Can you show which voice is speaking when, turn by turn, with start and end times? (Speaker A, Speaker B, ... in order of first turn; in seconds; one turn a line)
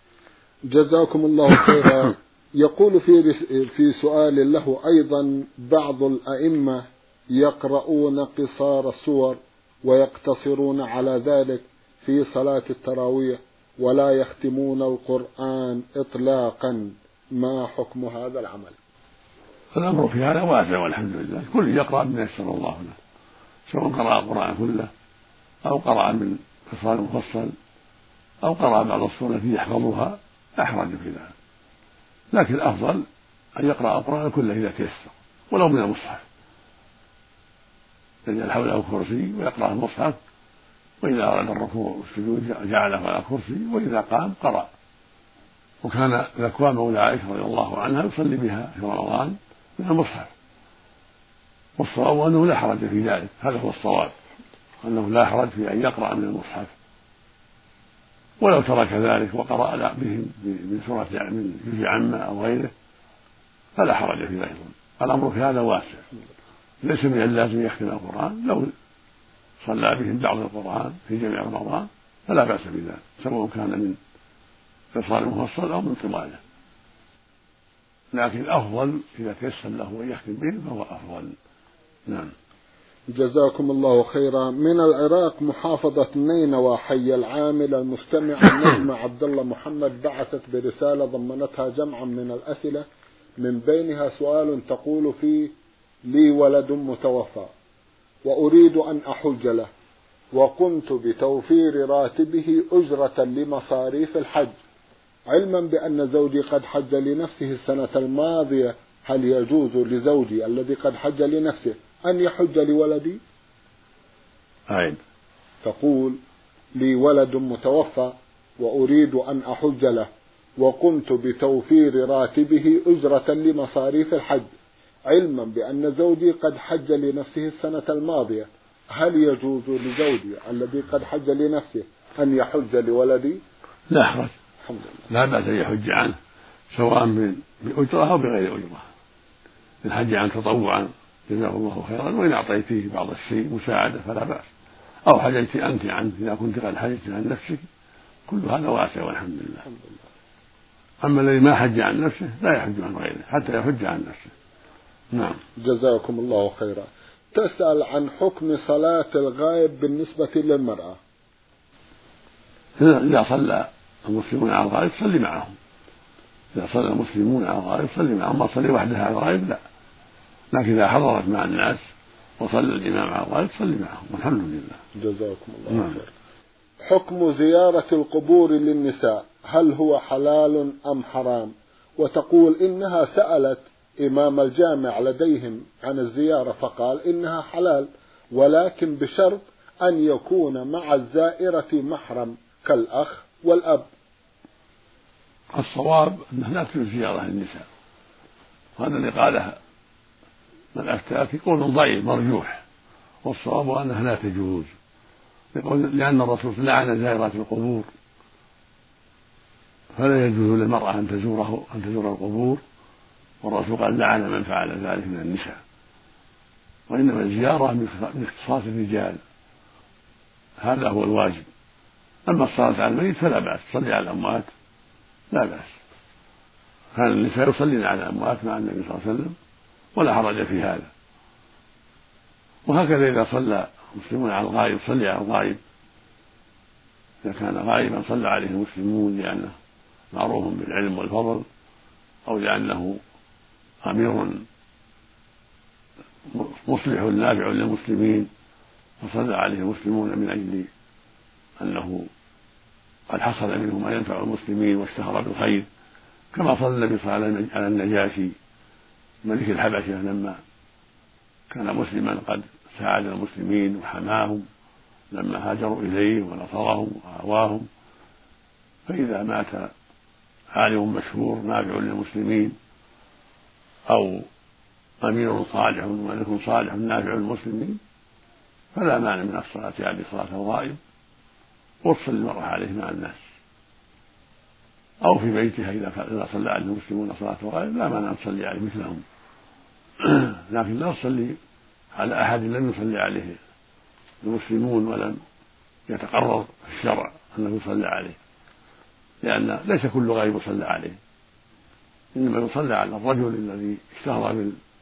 Speaker A: 0.7-18.8
Speaker B: 19.8-23.0
Speaker B: 23.7-24.9
Speaker B: 25.6-27.5
Speaker B: 28.4-31.3
Speaker B: 32.3-33.0
Speaker B: 33.6-36.2
Speaker B: 38.3-40.2
Speaker B: 41.0-44.7
Speaker B: 45.8-50.3
Speaker B: 51.8-54.1
Speaker B: 54.8-56.7
Speaker B: 58.4-62.7
Speaker B: 63.8-66.0
Speaker B: 66.8-68.7
Speaker B: 69.6-74.0
Speaker B: 74.9-76.4
Speaker B: 78.1-81.3
Speaker B: 82.1-82.3
Speaker A: 83.1-92.9
Speaker A: 93.4-95.5
Speaker A: 96.1-97.5
Speaker A: 98.2-99.7
Speaker A: 100.3-104.5
Speaker A: 105.3-113.2
Speaker B: 114.7-115.0
Speaker A: 115.6-116.2
Speaker A: 116.8-120.1
Speaker A: 120.6-124.5
Speaker A: 125.1-133.4
Speaker B: 133.9-134.3
Speaker A: 134.7-135.1
Speaker B: 135.1-136.2
Speaker B: 136.7-138.9
Speaker B: 139.8-144.5
Speaker B: 145.1-147.6
Speaker B: 148.3-149.6
Speaker B: 151.0-154.3
Speaker B: 155.1-155.4
Speaker A: 155.6-161.0
Speaker B: 162.8-165.5
Speaker B: 166.6-169.6
Speaker B: 170.5-171.8
Speaker B: 172.4-174.8
Speaker A: 175.0-176.1
Speaker A: 176.9-193.9
Speaker B: 195.5-197.7
Speaker B: 198.8-199.6
Speaker B: 200.7-202.6
Speaker B: 203.2-204.7
Speaker B: 205.5-207.9
Speaker B: 209.9-212.6
Speaker B: 213.4-215.6
Speaker B: 216.9-219.2
Speaker B: 220.6-221.5
Speaker B: 222.3-224.5
Speaker B: 225.3-225.8
Speaker B: 226.9-229.3
Speaker B: 229.9-230.9
Speaker B: 232.7-235.6
Speaker B: 237.2-239.6
Speaker B: 240.1-241.4
Speaker B: 242.3-243.0
Speaker B: 243.8-244.4
Speaker B: 246.3-248.3
Speaker B: 249.0-250.7
Speaker B: 251.6-252.1
Speaker B: 253.1-255.7
Speaker B: 256.3-258.4
Speaker B: 259.2-260.4
Speaker B: 261.5-264.4
Speaker B: 265.1-267.7
Speaker B: 268.9-269.7
Speaker B: 270.5-272.6
Speaker B: 273.9-274.3
Speaker B: 275.0-277.8
Speaker B: 278.7-280.8
Speaker B: 281.8-283.2
Speaker B: 285.0-289.0
Speaker B: 290.0-291.4
Speaker B: 291.9-293.4
Speaker B: 294.2-295.2
Speaker B: 295.9-298.2
Speaker B: 299.2-301.0
Speaker B: 302.1-304.6